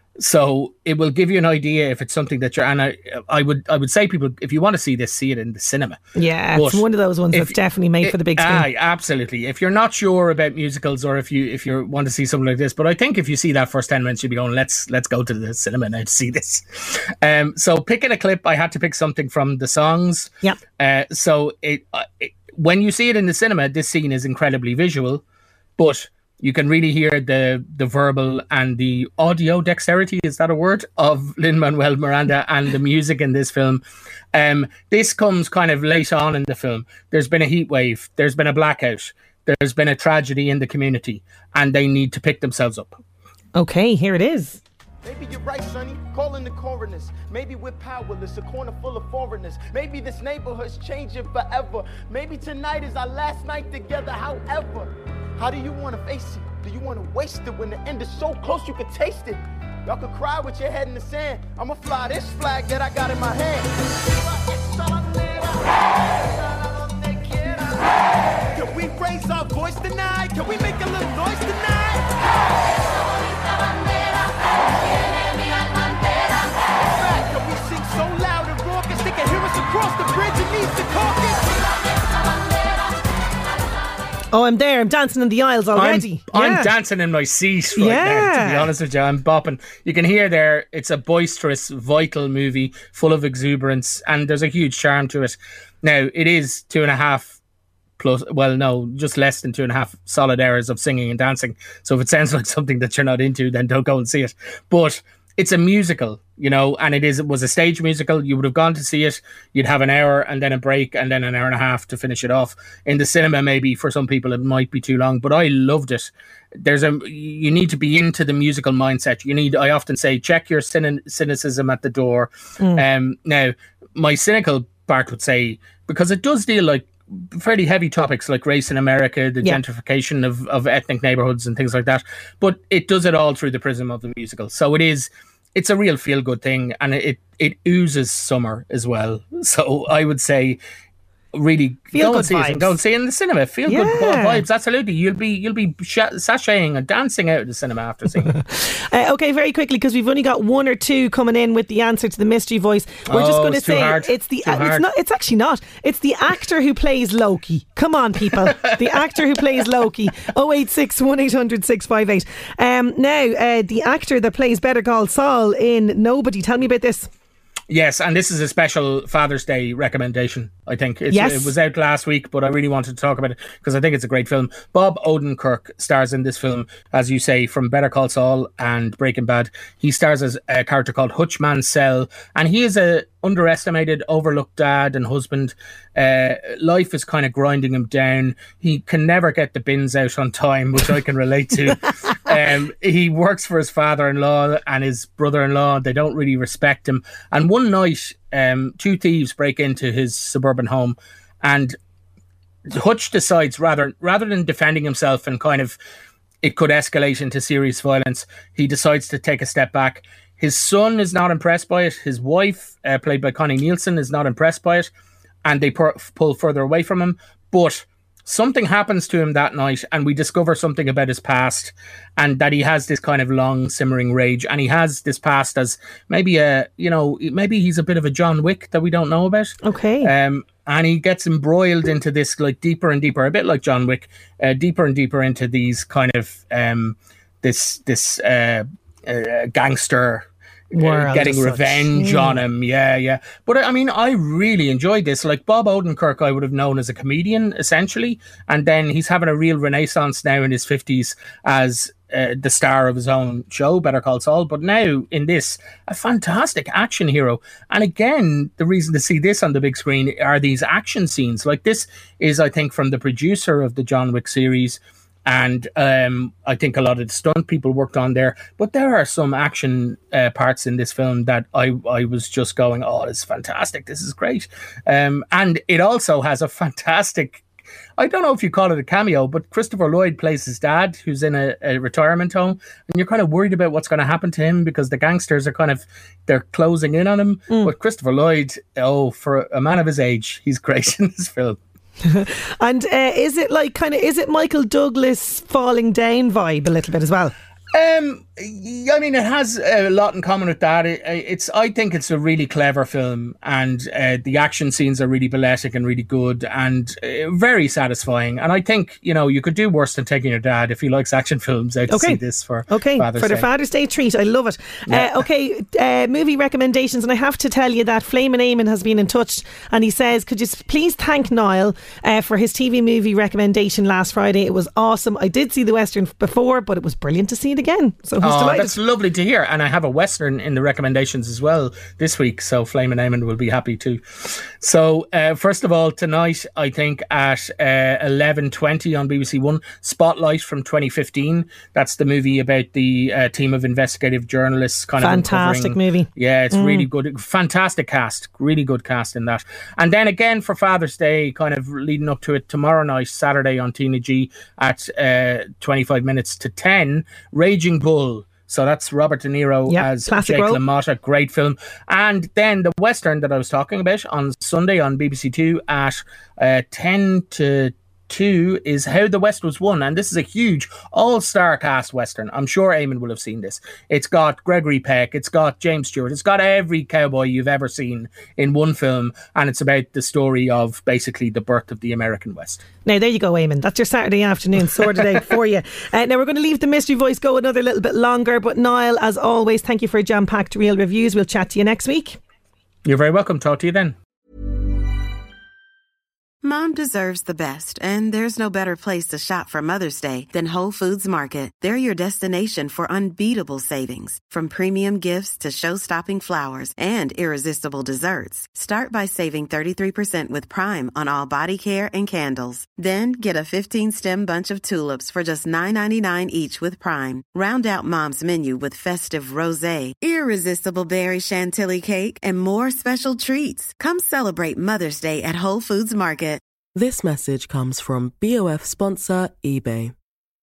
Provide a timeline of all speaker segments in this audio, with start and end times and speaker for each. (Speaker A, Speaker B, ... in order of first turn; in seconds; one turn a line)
Speaker A: 0.2-6.0
Speaker B: 6.1-8.7
Speaker A: 6.5-25.2
Speaker A: 25.8-33.8
Speaker A: 34.3-43.0
Speaker B: 43.5-44.6
Speaker C: 45.0-67.9
Speaker C: 68.5-72.5
Speaker C: 76.8-81.4
Speaker B: 84.3-86.7
Speaker A: 85.7-97.4
Speaker B: 87.8-88.7
Speaker A: 98.0-140.6
Speaker A: 141.3-148.3
Speaker B: 141.9-142.8
Speaker B: 143.7-144.4
Speaker B: 148.3-167.1
Speaker A: 153.1-154.8
Speaker A: 167.7-201.8
Speaker B: 171.1-171.5
Speaker A: 202.7-205.8
Speaker A: 206.4-214.9
Speaker A: 215.4-277.4
Speaker B: 229.6-230.1
Speaker B: 240.7-242.4
Speaker A: 278.0-291.6
Speaker B: 292.0-297.3
Speaker A: 297.7-313.4
Speaker B: 311.9-328.8
Speaker A: 314.9-315.2
Speaker A: 328.2-382.6
Speaker B: 345.0-346.9
Speaker B: 359.7-360.6
Speaker B: 382.8-392.2
Speaker A: 392.8-393.9
Speaker D: 396.4-426.4
Speaker E: 426.7-429.9